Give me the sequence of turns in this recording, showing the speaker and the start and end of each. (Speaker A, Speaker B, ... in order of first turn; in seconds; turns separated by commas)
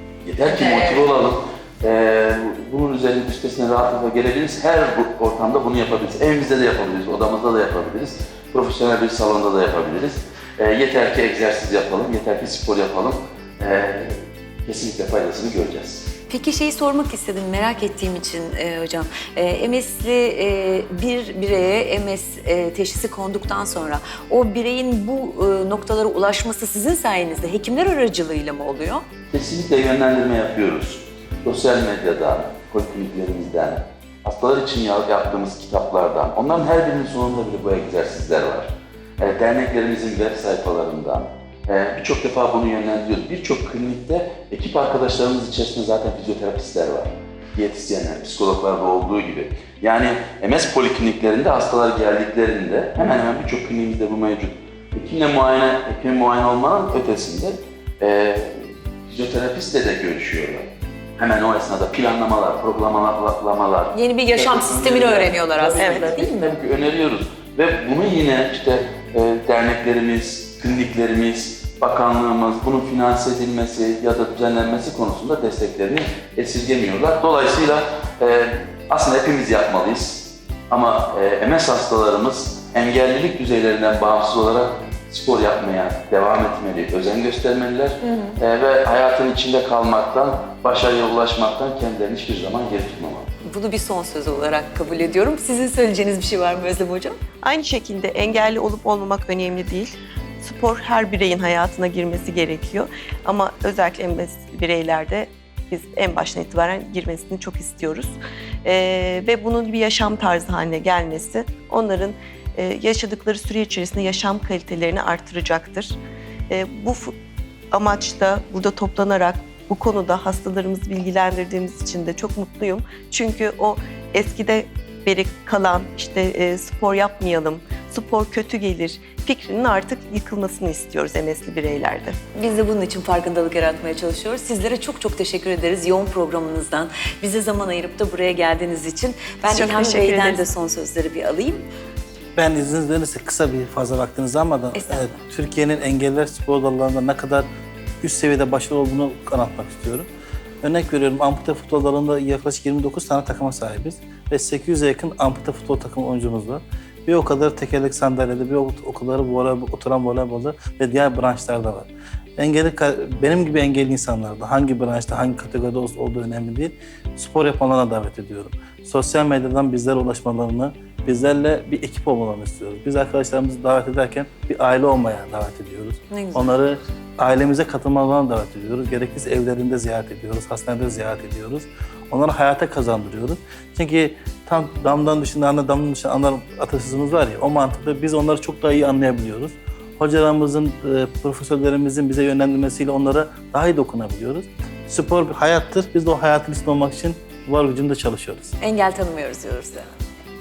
Speaker A: 0.2-16.1, Speaker B: 0.5-1.1, Speaker B: 16.3-29.1, Speaker A: 29.3-93.3, Speaker B: 63.9-66.6, Speaker C: 65.8-66.2, Speaker B: 88.0-88.4, Speaker B: 93.5-97.2, Speaker C: 97.4-116.0, Speaker C: 116.5-117.1, Speaker C: 117.7-132.2, Speaker B: 132.4-141.7, Speaker C: 139.5-140.4, Speaker D: 142.3-147.5, Speaker B: 144.8-145.2, Speaker D: 148.0-150.1, Speaker D: 150.6-198.5, Speaker B: 176.1-176.6, Speaker B: 198.6-199.9